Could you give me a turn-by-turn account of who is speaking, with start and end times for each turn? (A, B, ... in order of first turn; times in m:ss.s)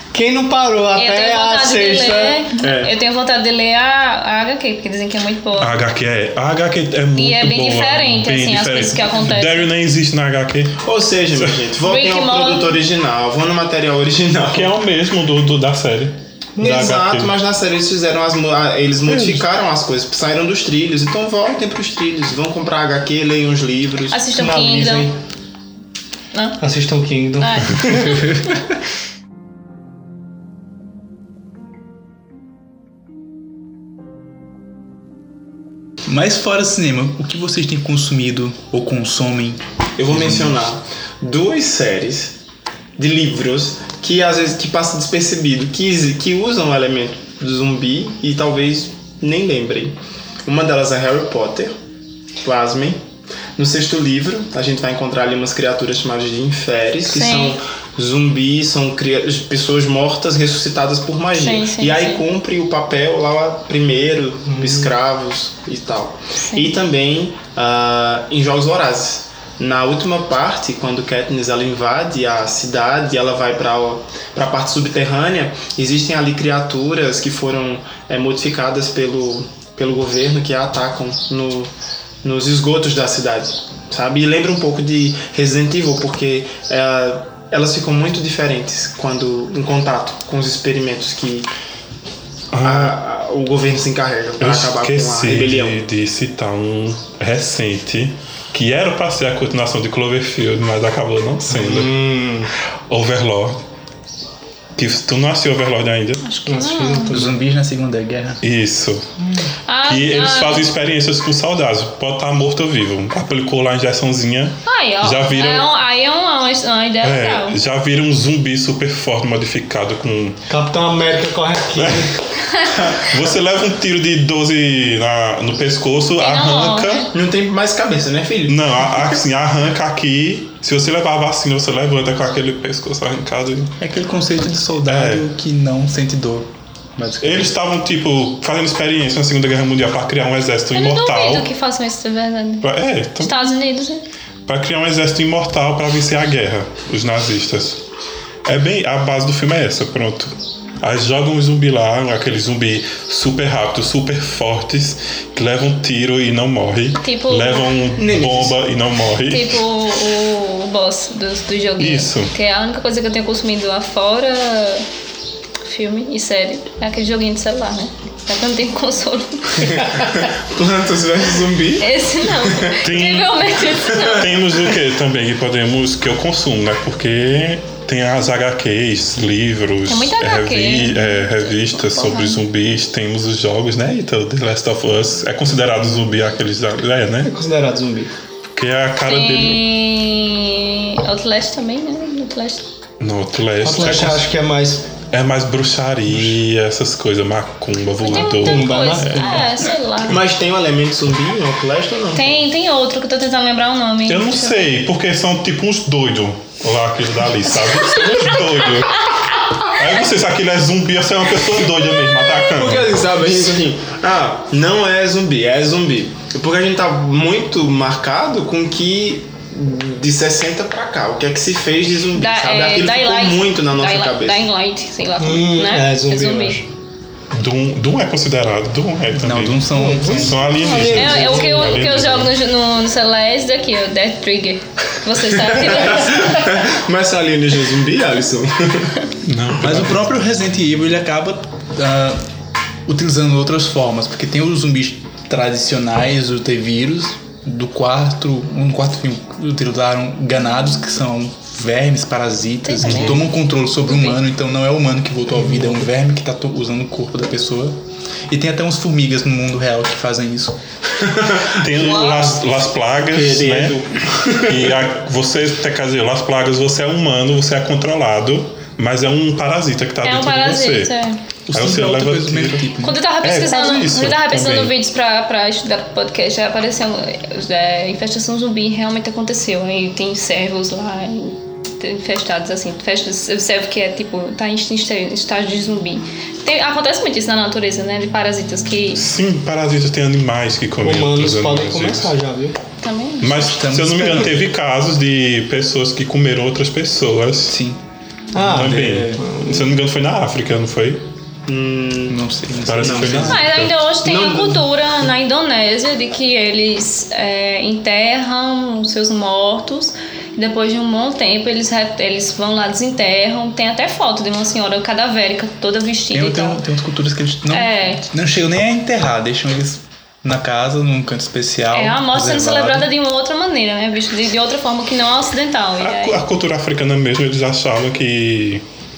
0:00.1-0:02.5 A
0:01.0-0:05.7 B
0:02.6-0:02.9 C
0:05.6-0:10.8 D
0:07.2-0:09.7 B
0:10.8-0:14.8 C
0:11.8-0:12.8 B
0:14.5-0:17.3 D
0:16.6-0:17.0 A
0:16.6-0:24.3 C
0:19.1-0:19.4 D
0:24.1-0:25.1 B
0:24.4-0:25.1 A
0:26.3-0:26.6 B
0:26.6-0:28.3 A
0:27.4-0:28.5 B
0:36.1-0:40.6 E
0:40.0-0:42.4 C
0:43.0-0:51.7 C
0:52.4-0:53.0 C
0:53.6-1:21.7 C
0:57.1-0:57.6 B
1:01.3-1:02.2 B
1:04.6-1:04.9 A
1:06.4-1:06.8 B
1:22.2-1:31.5 C
1:32.5-1:33.0 D
1:32.6-1:35.8 C
1:34.4-1:42.0 D
1:41.5-1:42.5 A
1:42.9-1:43.6 D
1:44.8-1:46.2 D
1:46.2-1:47.2 B
1:46.5-1:47.3 A
1:47.1-1:48.4 E
1:48.4-1:49.0 D
1:49.7-1:50.7 B
1:49.8-1:55.7 D
1:54.6-1:57.6 B
1:57.0-2:00.4 D
2:00.5-2:02.1 A
2:01.8-2:02.1 D
2:02.7-2:07.1 D
2:06.2-2:07.1 B
2:07.1-2:09.1 C
2:08.5-2:13.7 D
2:13.8-2:17.5 E
2:14.8-2:15.3 D
2:17.2-2:21.5 D
2:20.7-2:22.7 B
2:22.6-2:23.3 D
2:23.2-2:24.0 B
2:24.4-2:27.8 D
2:28.4-2:39.6 D
2:37.0-2:37.7 B
2:38.0-2:38.6 C
2:39.3-2:44.9 B
2:41.8-2:42.3 D
2:45.6-2:50.0 B
2:50.0-2:52.7 C
2:51.8-2:54.3 B
2:52.8-2:53.5 D
2:54.0-3:07.3 D
2:59.9-3:02.4 B
3:07.2-3:08.1 A
3:08.5-3:09.6 D
3:09.1-3:12.6 B
3:13.0-3:14.2 D
3:13.6-3:14.9 A
3:15.1-3:19.4 D
3:18.0-3:20.2 B
3:18.3-3:19.4 A
3:20.0-3:22.4 C
3:22.1-3:24.7 B
3:24.1-3:29.1 D
3:28.0-3:28.5 B
3:29.6-3:32.9 D
3:32.5-3:44.4 C
3:42.1-3:46.6 B
3:45.2-3:46.6 A
3:47.3-3:52.3 D
3:49.2-3:50.4 E
3:49.8-3:51.9 A
3:50.8-3:56.5 B
3:55.3-3:59.0 C
3:59.2-4:00.2 D
3:59.6-4:02.3 E
4:02.9-4:20.6 E
4:12.7-4:13.3 B
4:12.8-4:13.2 D
4:13.8-4:14.2 B
4:21.0-4:22.2 C
4:21.5-4:23.8 D
4:23.1-4:24.8 C
4:24.4-4:30.9 D
4:30.0-4:31.2 B
4:31.5-4:32.9 E
4:31.5-4:34.7 D
4:32.8-4:49.0 B
4:48.9-4:52.1 D
4:50.8-4:52.6 A
4:52.8-4:53.4 B
4:53.2-4:57.6 D
4:53.3-4:54.4 E
4:57.5-4:57.8 E
4:58.3-4:59.7 A
4:58.4-5:01.0 D
4:58.4-4:59.2 E
5:01.5-5:02.2 C
5:02.1-5:03.4 E
5:02.6-5:03.9 D
5:02.8-5:03.3 C
5:03.2-5:16.6 B
5:04.0-5:04.6 C
5:16.1-5:22.9 E
5:17.5-5:18.0 B
5:21.7-5:26.2 B
5:25.8-5:28.6 D